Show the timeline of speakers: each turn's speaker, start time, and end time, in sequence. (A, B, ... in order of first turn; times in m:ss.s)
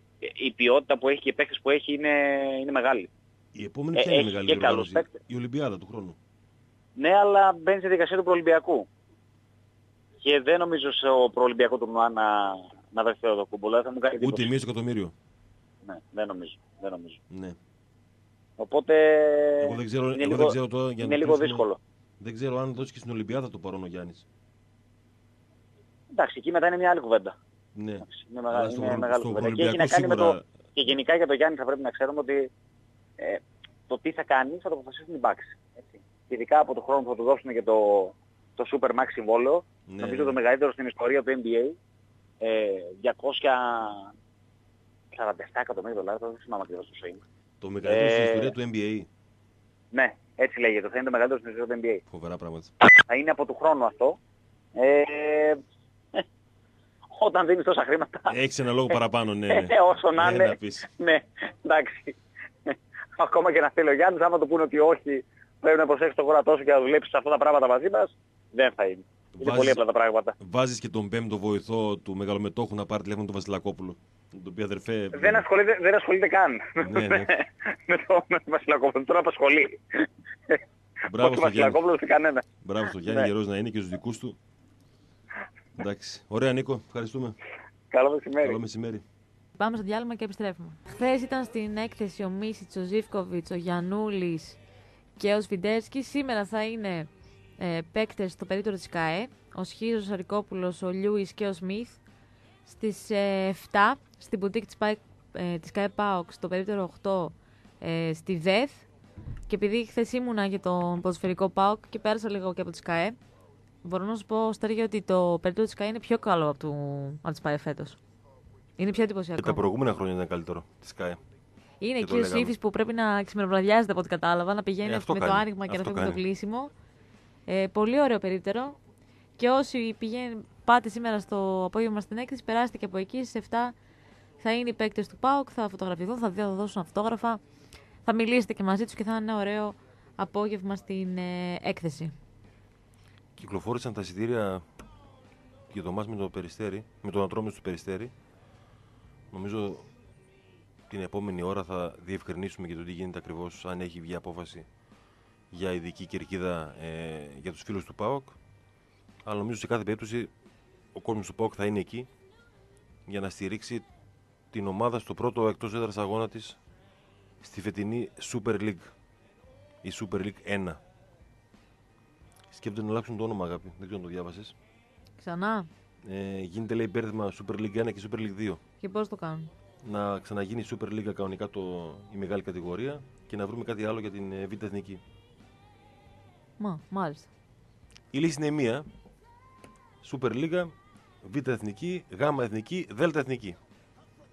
0:00.2-0:03.1 A
0:03.5-0:06.2 B
0:04.0-0:05.1 A
0:07.0-0:08.9 A
0:10.2-0:14.5 A
0:14.2-0:15.1 B
0:15.9-0:17.2 A
0:17.3-0:17.6 B
0:18.6-0:21.8 A
0:19.6-0:21.6 B
0:22.2-0:24.2 B
0:26.1-0:27.4 A
0:27.8-0:30.5 B
0:28.1-0:32.5 A
0:33.2-0:41.8 A
0:39.9-0:40.4 B
0:42.4-0:44.1 A
0:45.1-0:47.2 A
0:47.6-0:49.1 B
0:47.8-0:48.5 A
0:49.9-0:52.0 A
0:52.1-0:52.7 B
0:53.1-0:54.2 A
0:54.8-0:55.6 A
0:57.1-0:58.4 A
0:58.3-1:00.9 B
0:59.5-1:10.4 A
1:09.4-1:09.8 B
1:10.4-1:15.5 B
1:15.1-1:20.6 A
1:16.8-1:17.3 B
1:21.1-1:21.8 B
1:21.2-1:22.4 A
1:22.6-1:24.4 B
1:23.0-1:23.3 A
1:25.8-1:27.4 B
1:27.9-1:28.6 A
1:28.4-1:29.0 B
1:29.6-1:34.6 C
1:35.2-1:42.0 C
1:42.7-1:48.8 C
1:49.5-1:53.2 C
1:53.8-1:58.0 C
1:58.8-1:59.6 C
1:59.4-2:01.2 B
2:01.8-2:06.7 C
2:02.0-2:02.6 B
2:04.8-2:06.2 B
2:07.5-2:08.8 C
2:09.4-2:13.8 C
2:14.4-2:17.4 C
2:18.0-2:22.1 C
2:23.4-2:24.7 B
2:25.7-2:28.1 B
2:29.3-2:29.9 B
2:30.9-2:34.7 B
2:35.5-2:38.4 B
2:39.2-2:40.3 B
2:40.9-2:42.1 B
2:43.1-2:43.9 B
2:44.5-2:46.6 B
2:47.4-2:48.9 B
2:49.8-2:50.8 B
2:52.5-2:54.6 B
2:55.2-2:55.7 C
2:56.0-2:58.6 B
2:58.8-2:59.5 C
2:59.8-3:05.0 B
3:06.6-3:07.3 C
3:08.1-3:08.9 B
3:10.0-3:10.7 B
3:11.2-3:13.6 B